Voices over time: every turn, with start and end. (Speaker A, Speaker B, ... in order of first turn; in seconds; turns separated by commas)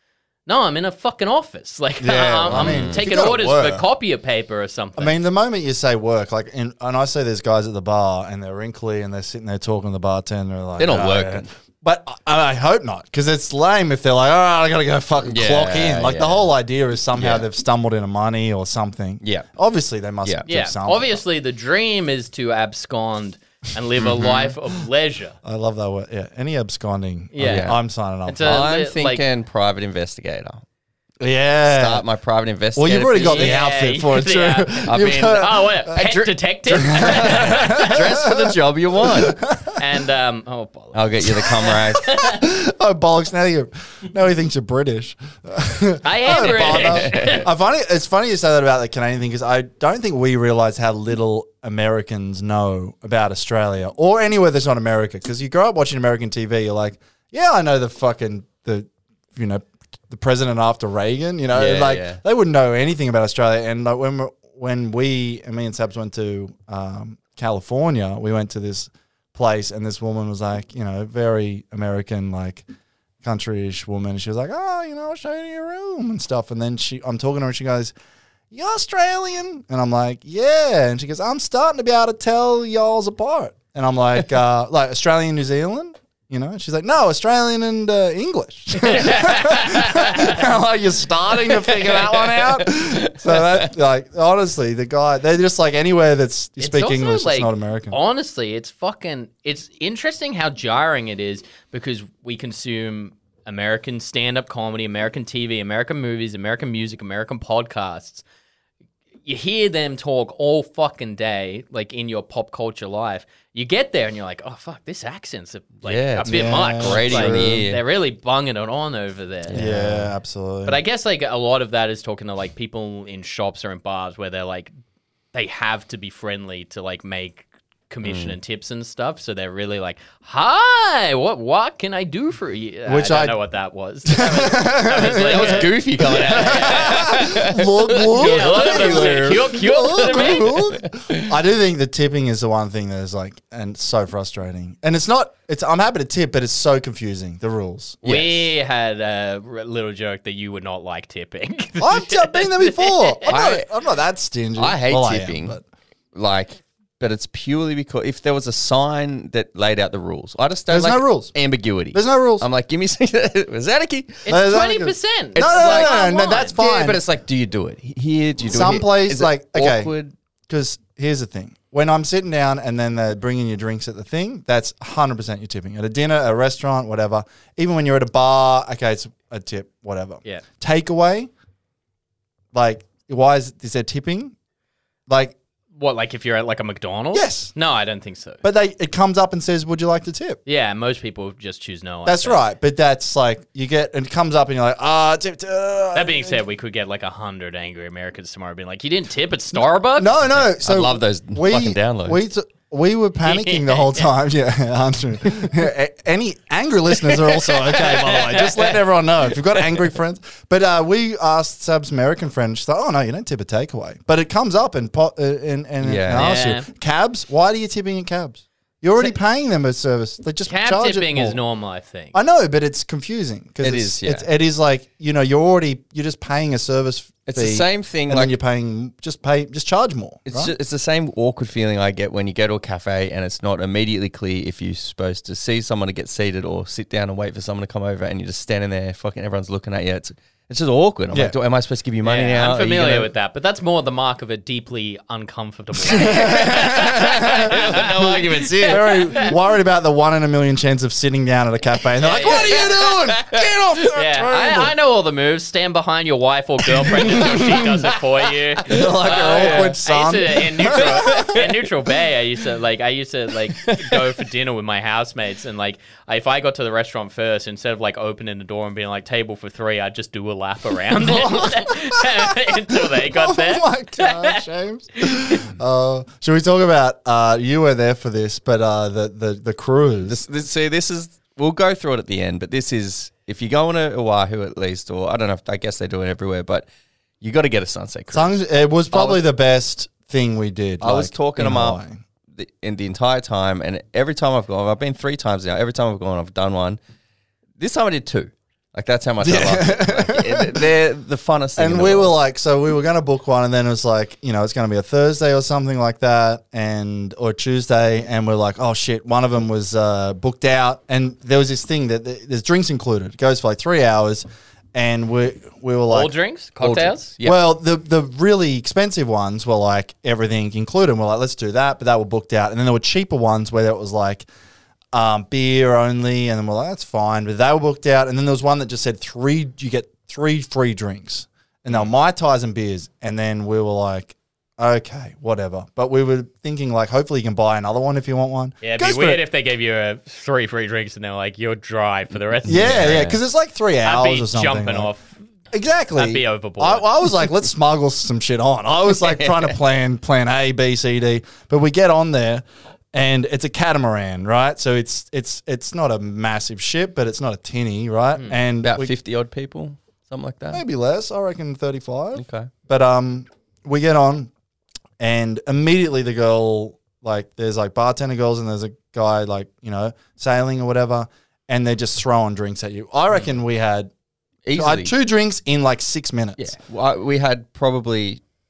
Speaker A: 0.5-5.2, Speaker B: 2.0-3.9, Speaker C: 2.5-3.0, Speaker B: 5.0-21.2, Speaker C: 10.8-11.5, Speaker C: 15.3-16.5, Speaker C: 17.1-17.5, Speaker C: 19.2-19.5, Speaker A: 20.5-25.4, Speaker C: 24.0-24.5, Speaker B: 25.4-28.6, Speaker A: 27.3-27.7, Speaker C: 27.4-27.8, Speaker A: 28.3-29.2, Speaker C: 28.4-30.6, Speaker B: 31.2-32.0, Speaker C: 31.7-33.6, Speaker B: 32.8-35.9, Speaker A: 33.2-38.2, Speaker C: 34.9-36.3, Speaker B: 36.7-38.5, Speaker C: 36.8-39.4, Speaker B: 39.1-39.8, Speaker A: 39.7-42.4, Speaker C: 40.9-42.1, Speaker B: 42.1-72.7, Speaker A: 46.0-47.5, Speaker C: 46.4-47.5, Speaker C: 61.5-62.2, Speaker B: 73.2-77.9, Speaker B: 78.5-98.0, Speaker A: 88.8-90.4, Speaker C: 92.1-93.7, Speaker A: 96.6-108.2, Speaker A: 109.2-119.6, Speaker C: 115.8-117.8, Speaker B: 116.3-117.7, Speaker C: 119.5-120.1, Speaker B: 119.5-120.8, Speaker A: 120.7-124.7, Speaker A: 125.3-137.3, Speaker C: 128.0-128.3, Speaker B: 132.9-133.4, Speaker B: 134.1-148.0, Speaker C: 135.1-141.3, Speaker A: 138.1-140.7, Speaker C: 148.0-148.5, Speaker A: 148.0-153.3, Speaker B: 151.8-155.6, Speaker C: 153.3-153.7, Speaker C: 154.6-155.6, Speaker C: 156.1-164.3, Speaker B: 160.7-161.3, Speaker B: 161.9-162.5, Speaker A: 164.3-166.6, Speaker B: 164.3-167.0, Speaker C: 165.4-170.2, Speaker B: 168.5-169.9, Speaker B: 170.5-181.3, Speaker B: 182.5-184.3, Speaker B: 185.1-185.3, Speaker A: 185.8-188.4, Speaker B: 187.1-187.5, Speaker B: 188.4-190.4, Speaker A: 190.5-192.4, Speaker B: 192.1-196.4, Speaker A: 195.9-200.2, Speaker B: 200.0-221.4, Speaker C: 200.5-202.2, Speaker A: 203.2-204.1, Speaker A: 207.5-208.8, Speaker C: 215.8-216.4, Speaker A: 216.1-216.7, Speaker A: 220.5-222.2, Speaker B: 222.1-230.5, Speaker C: 223.6-224.3, Speaker C: 227.3-228.3, Speaker C: 230.3-243.1, Speaker A: 242.0-249.3, Speaker B: 245.9-247.9, Speaker C: 246.0-249.3, Speaker B: 248.6-254.7, Speaker A: 252.0-252.8, Speaker C: 252.2-253.4, Speaker A: 253.9-274.4, Speaker B: 257.0-257.9, Speaker B: 258.7-261.4, Speaker C: 258.8-259.8, Speaker C: 260.8-261.5, Speaker C: 263.6-264.0, Speaker B: 271.0-280.2, Speaker A: 275.1-275.4, Speaker C: 280.1-286.7, Speaker C: 287.2-288.4, Speaker B: 288.1-292.0, Speaker C: 288.9-289.2, Speaker C: 290.8-296.8, Speaker C: 297.6-302.2, Speaker B: 299.2-300.7, Speaker B: 301.6-316.1, Speaker A: 315.9-317.1, Speaker C: 316.6-317.4, Speaker B: 317.2-324.3, Speaker B: 324.9-339.2, Speaker A: 338.6-343.2, Speaker C: 342.5-343.2, Speaker B: 342.5-344.9, Speaker A: 343.8-345.1, Speaker B: 345.5-358.9, Speaker A: 345.9-346.9, Speaker C: 349.0-349.5, Speaker C: 358.6-360.6, Speaker B: 360.5-364.3, Speaker C: 362.1-362.5, Speaker B: 365.0-373.9, Speaker C: 374.4-374.9, Speaker B: 374.6-376.5, Speaker C: 376.4-378.2